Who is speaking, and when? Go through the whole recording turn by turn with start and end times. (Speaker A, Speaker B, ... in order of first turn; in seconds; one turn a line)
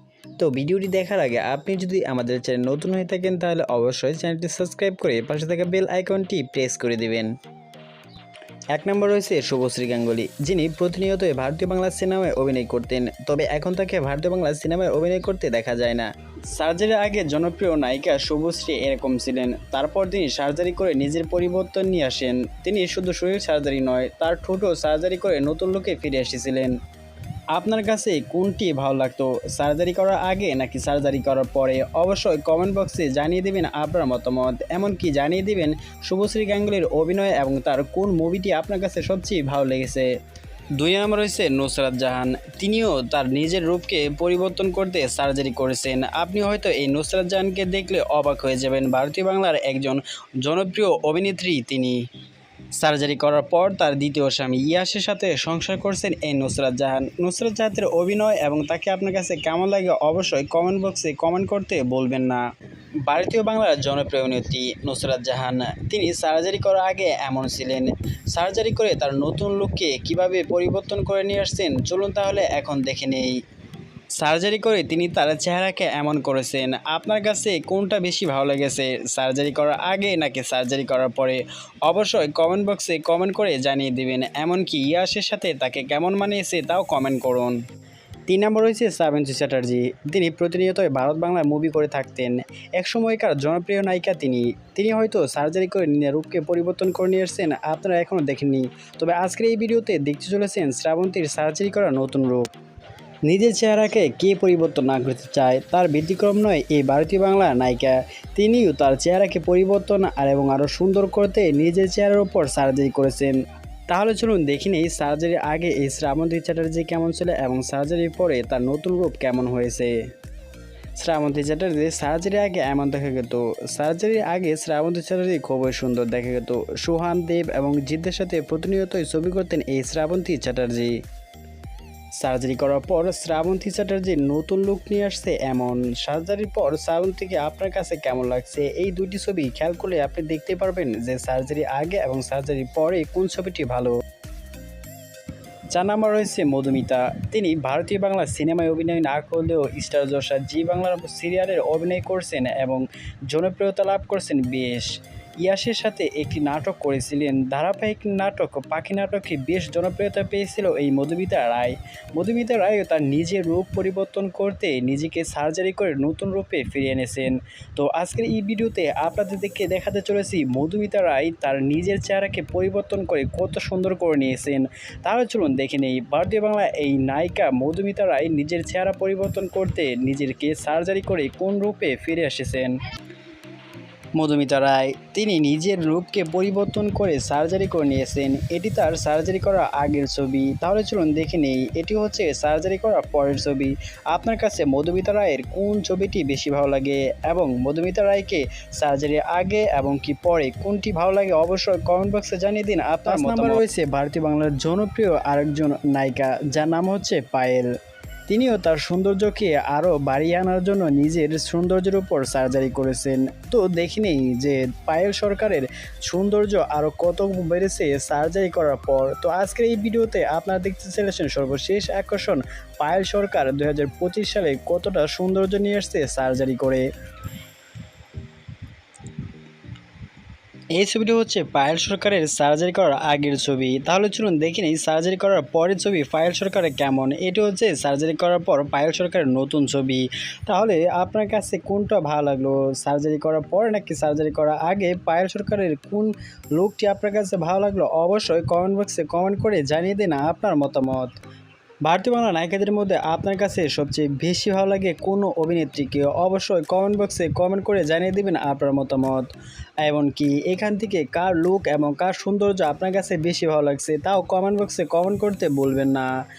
Speaker A: 0.4-7.3
Speaker A: 8.8-26.8
Speaker A: 27.6-40.1
Speaker A: 40.8-52.0
Speaker A: 52.8-62.4
Speaker A: 63.1-73.3
Speaker A: 74.2-87.6
Speaker A: 88.3-102.5
Speaker A: 103.3-113.3
Speaker A: 113.9-119.9
Speaker A: 121.0-131.0
Speaker A: 132.2-144.0
Speaker A: 145.7-182.8
Speaker A: 184.2-207.7
Speaker A: 208.3-226.8
Speaker A: 230.8-251.1
Speaker A: 251.8-259.3
Speaker A: 259.8-266.1